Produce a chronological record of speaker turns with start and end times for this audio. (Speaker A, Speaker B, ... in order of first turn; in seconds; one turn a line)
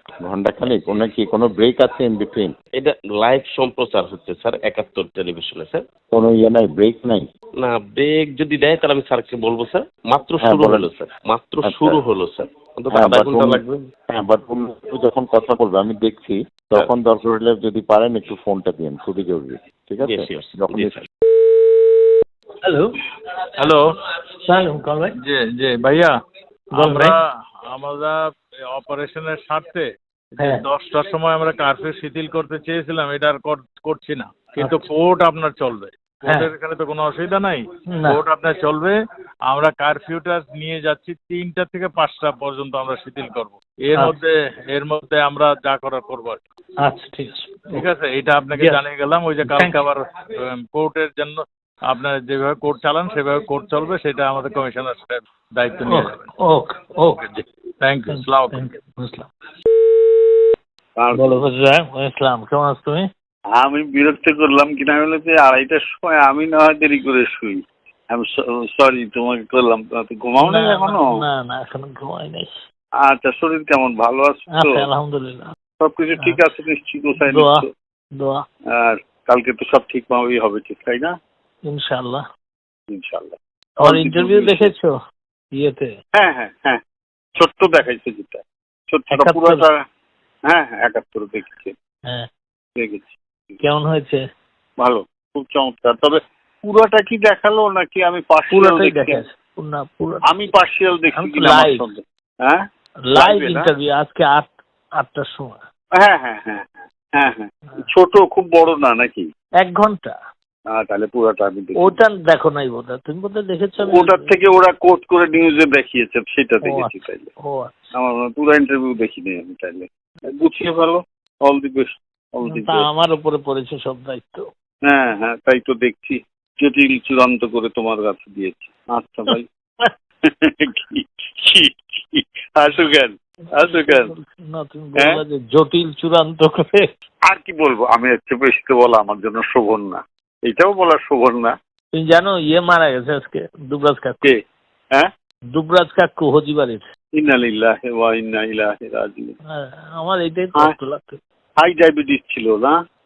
Speaker A: 0.2-2.5
Speaker B: 2.7-5.8
Speaker A: 6.1-7.3
Speaker B: 7.6-13.9
Speaker A: 10.4-10.9
Speaker A: 11.6-12.0
Speaker A: 12.9-21.0
Speaker B: 20.0-21.1
Speaker C: 22.6-22.9
Speaker C: 24.5-25.1
Speaker D: 25.2-26.1
Speaker C: 26.7-27.1
Speaker D: 26.8-39.0
Speaker C: 34.6-34.9
Speaker C: 37.9-38.2
Speaker D: 39.5-46.4
Speaker C: 46.8-47.8
Speaker D: 47.7-56.3
Speaker C: 49.5-49.8
Speaker C: 55.9-57.2
Speaker D: 57.2-58.7
Speaker C: 58.1-59.3
Speaker E: 61.0-61.4
Speaker C: 61.1-63.1
Speaker E: 63.6-71.1
Speaker C: 70.4-72.5
Speaker E: 73.1-74.8
Speaker C: 74.6-75.5
Speaker E: 75.8-77.7
Speaker C: 77.2-77.6
Speaker C: 78.2-78.4
Speaker E: 78.8-81.2
Speaker C: 81.7-82.2
Speaker E: 82.9-84.7
Speaker C: 83.8-84.9
Speaker C: 85.5-85.9
Speaker E: 86.2-86.8
Speaker E: 87.4-89.8
Speaker C: 89.1-89.6
Speaker E: 90.5-91.7
Speaker E: 92.8-93.2
Speaker C: 93.6-94.2
Speaker E: 94.8-99.2
Speaker C: 98.5-100.2
Speaker E: 100.3-102.6
Speaker C: 101.2-101.8
Speaker C: 103.1-105.6
Speaker E: 103.2-103.7
Speaker E: 106.0-109.3
Speaker C: 109.6-110.2
Speaker E: 110.7-112.0
Speaker C: 111.8-114.3
Speaker E: 113.8-117.3
Speaker C: 116.7-116.9
Speaker C: 117.4-117.7
Speaker E: 118.0-122.9
Speaker C: 122.5-124.5
Speaker E: 124.9-129.5
Speaker E: 130.3-134.1
Speaker C: 133.6-136.9
Speaker E: 137.3-141.6
Speaker C: 141.9-144.3
Speaker C: 145.5-146.8
Speaker E: 147.2-149.3
Speaker C: 149.5-151.2
Speaker E: 151.6-152.8